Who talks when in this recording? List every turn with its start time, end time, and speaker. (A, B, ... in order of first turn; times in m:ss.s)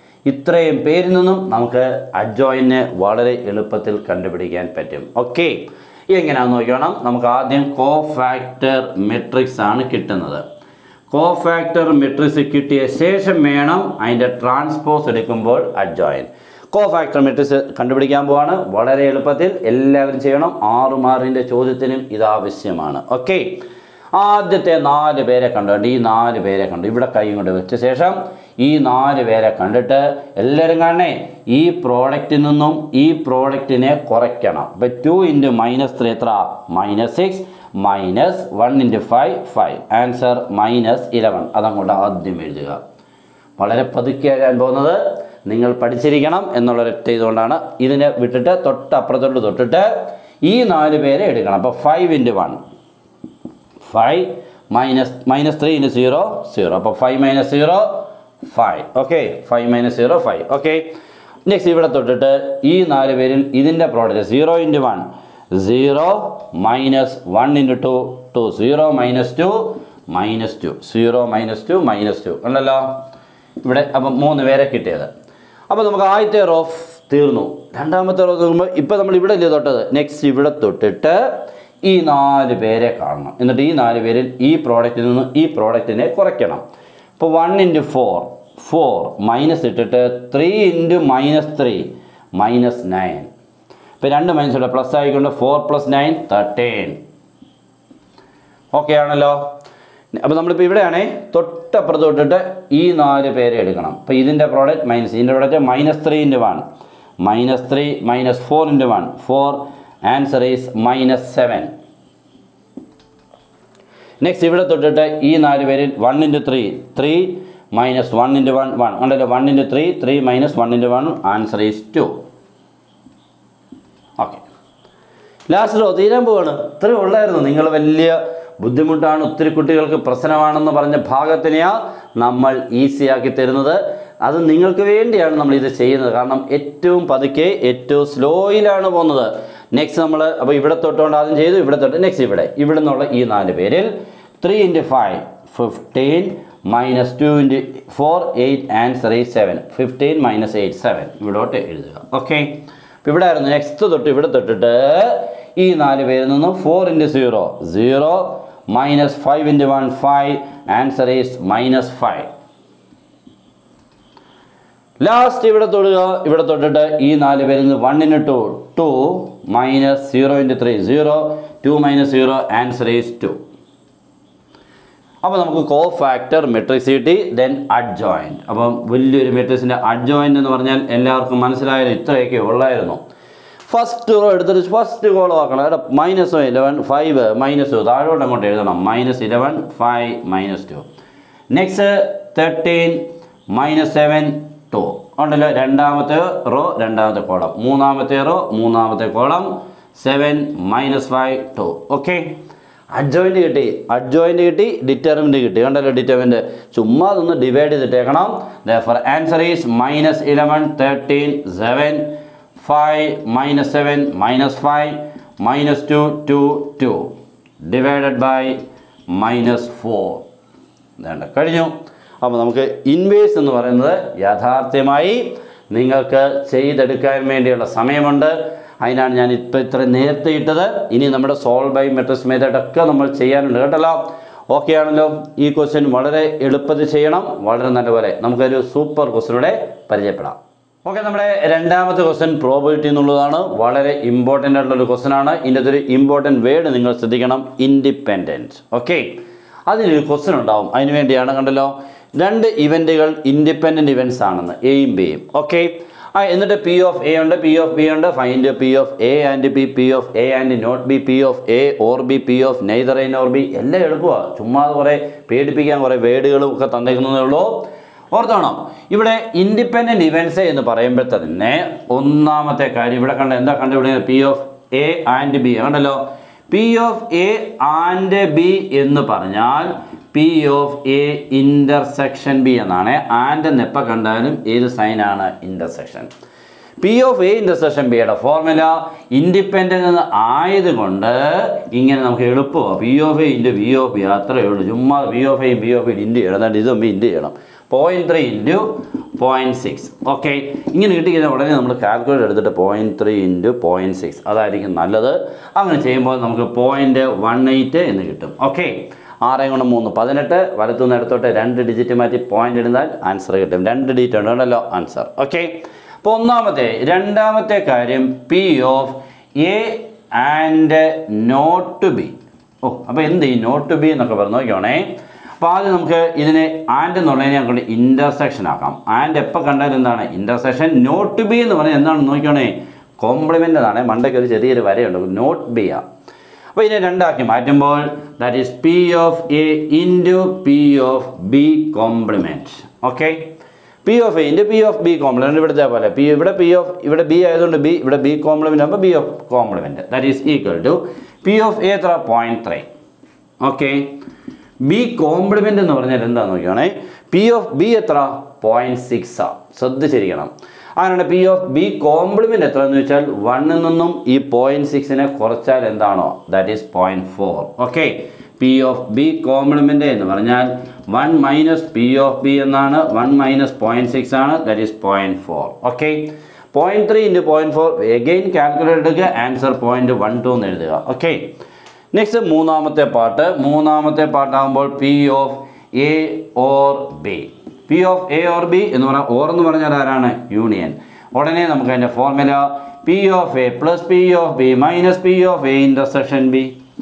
0:00.2-0:10.4 A
0:11.1-0:23.6 A
0:24.1-0:42.8 A
0:43.6-0:52.6 A
0:53.8-1:00.9 A
1:01.4-1:13.0 A
1:13.6-1:15.1 A
1:15.7-1:21.3 A
1:21.8-1:26.6 A
1:27.2-1:33.3 A
1:34.0-1:37.0 A
1:38.7-1:39.4 A
1:40.2-1:46.6 A
1:47.2-1:51.7 A
1:54.2-2:02.1 A
2:04.2-2:04.4 A
2:05.5-2:42.3 A
2:45.0-2:53.4 A
2:55.2-3:03.0 A
3:03.7-3:10.8 A
3:11.5-3:22.4 A
3:22.9-3:37.1 A
3:37.6-3:38.6 A
3:39.1-3:40.2 A
3:41.0-4:46.1 A
4:46.8-5:24.9 A
5:25.4-5:35.8 A
5:36.5-5:43.3 A
5:43.8-5:52.6 A
5:53.4-5:54.0 A
5:54.6-6:21.3 A
6:21.9-6:36.6 A